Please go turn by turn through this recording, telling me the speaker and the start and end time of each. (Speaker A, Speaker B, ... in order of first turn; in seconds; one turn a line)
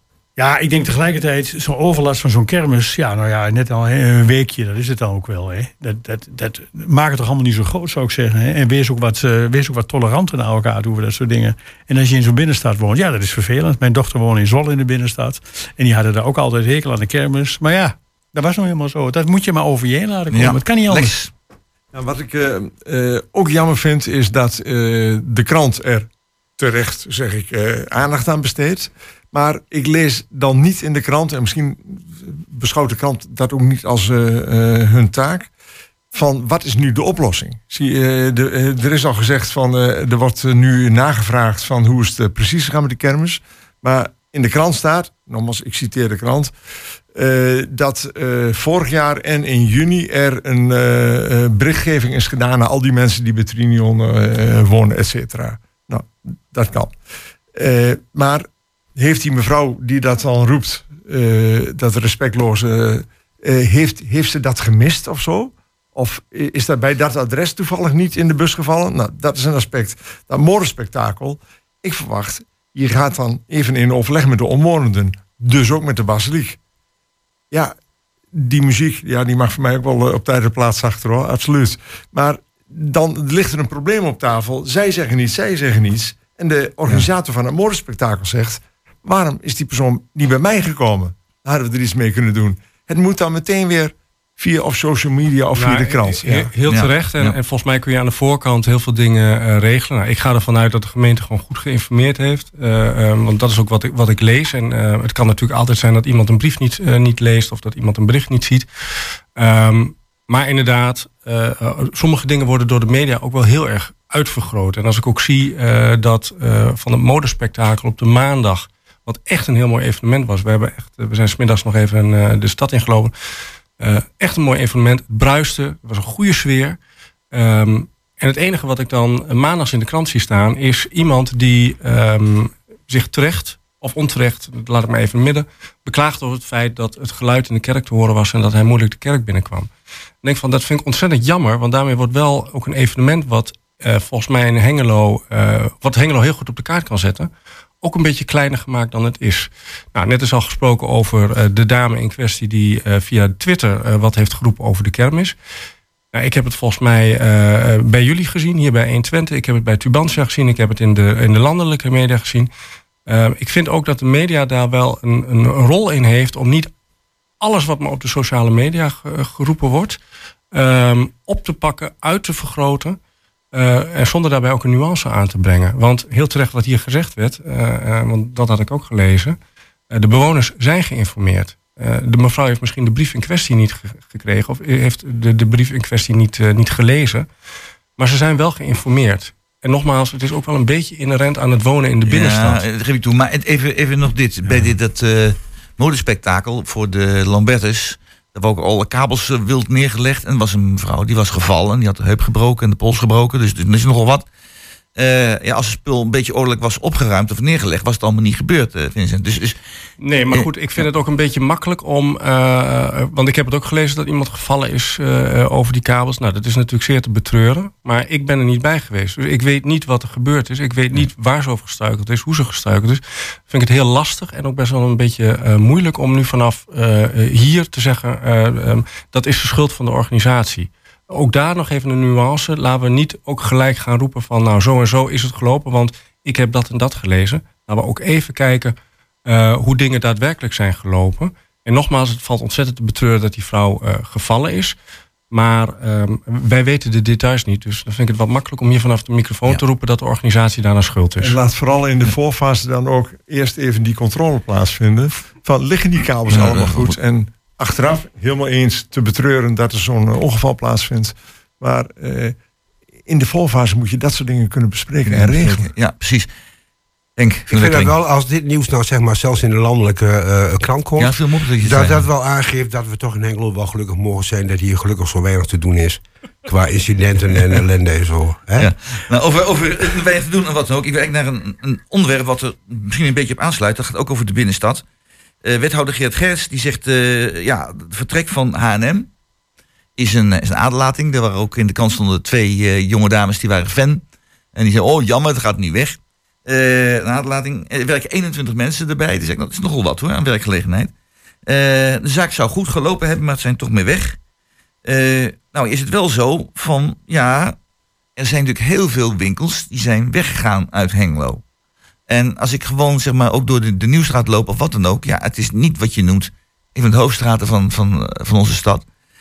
Speaker A: 0.4-21.1
Speaker B: 20.3-21.3
Speaker C: 21.9-35.5
Speaker C: 36.1-46.5
Speaker C: 47.1-57.0
Speaker C: 57.5-76.6
Speaker C: 78.3-96.5
Speaker D: 95.5-123.1
Speaker B: 96.7-97.3
Speaker D: 123.8-126.8
Speaker D: 127.3-139.7
Speaker D: 140.2-147.3
Speaker D: 147.8-155.3
Speaker D: 156.1-162.5
Speaker D: 163.1-166.7
Speaker D: 167.4-170.0
Speaker D: 170.5-173.0
Speaker D: 173.5-179.4
Speaker D: 179.9-187.3
Speaker D: 188.0-192.6
Speaker B: 192.1-204.2
Speaker B: 204.9-209.6
Speaker D: 210.0-238.7
Speaker D: 239.2-244.7
Speaker D: 245.3-251.4
Speaker C: 251.2-262.4
Speaker B: 256.3-256.9
Speaker C: 263.0-265.7
Speaker B: 265.1-266.3
Speaker B: 267.2-267.9
Speaker E: 267.5-278.7
Speaker B: 271.0-272.1
Speaker B: 278.6-284.8
Speaker B: 285.4-289.1
Speaker B: 290.0-294.0
Speaker B: 294.5-300.9
Speaker B: 301.5-304.2
Speaker B: 304.8-307.6
Speaker B: 308.2-311.4
Speaker B: 312.1-318.8